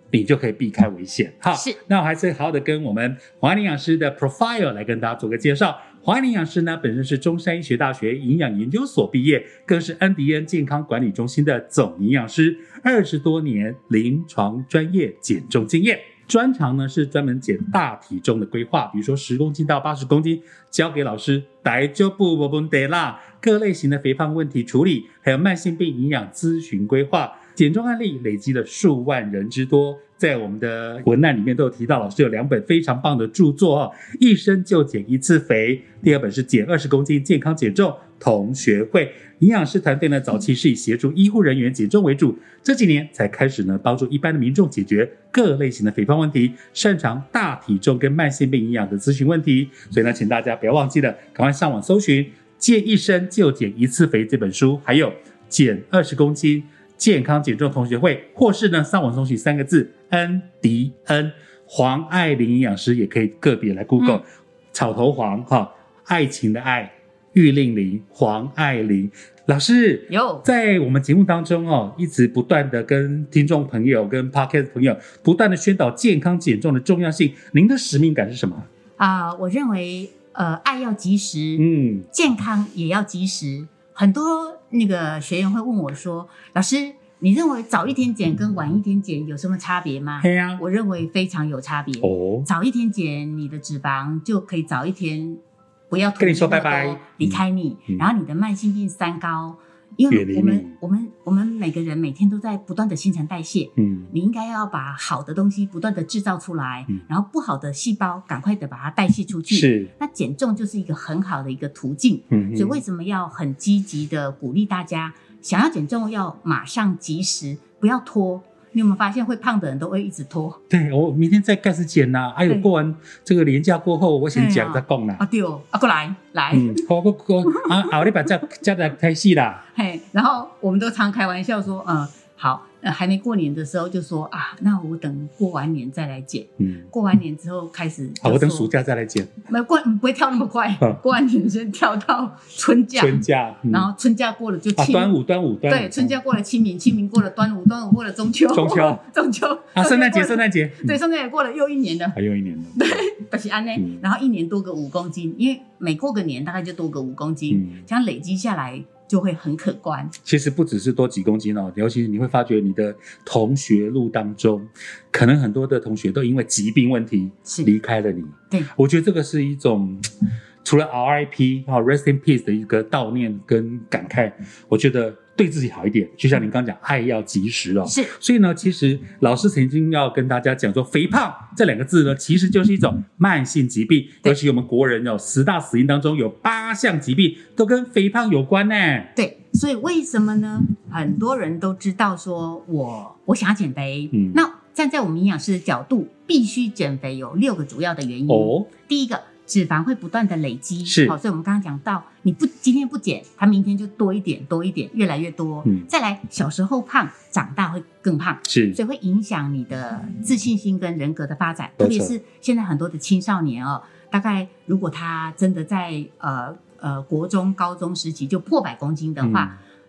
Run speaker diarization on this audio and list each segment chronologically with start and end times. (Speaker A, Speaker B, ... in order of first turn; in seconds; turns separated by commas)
Speaker A: 0.1-78.7, Speaker B: 1.5-1.8, Speaker B: 70.1-70.5, Speaker B: 79.0-120.6, Speaker A: 81.6-82.1, Speaker A: 90.2-90.6, Speaker A: 92.0-92.5, Speaker A: 96.2-98.1, Speaker A: 100.1-100.8, Speaker A: 103.8-104.1, Speaker A: 109.5-109.9, Speaker A: 112.3-112.8, Speaker A: 120.7-125.2, Speaker B: 124.3-126.8, Speaker A: 126.5-129.6, Speaker B: 127.5-128.0, Speaker B: 129.7-138.7, Speaker A: 136.6-136.9, Speaker A: 138.2-139.3, Speaker B: 139.5-145.1, Speaker A: 143.0-143.9, Speaker A: 144.8-146.2, Speaker B: 145.7-152.2, Speaker A: 148.5-149.0, Speaker A: 149.8-151.0, Speaker A: 152.2-153.1, Speaker B: 152.8-160.1, Speaker A: 153.8-154.0, Speaker A: 157.5-157.8, Speaker A: 160.2-189.1, Speaker B: 167.5-167.7, Speaker B: 177.8-178.2, Speaker B: 189.2-219.6, Speaker A: 194.1-194.4, Speaker A: 198.3-198.7, Speaker A: 200.8-201.2, Speaker A: 208.5-208.8, Speaker A: 211.8-212.1, Speaker A: 219.2-219.6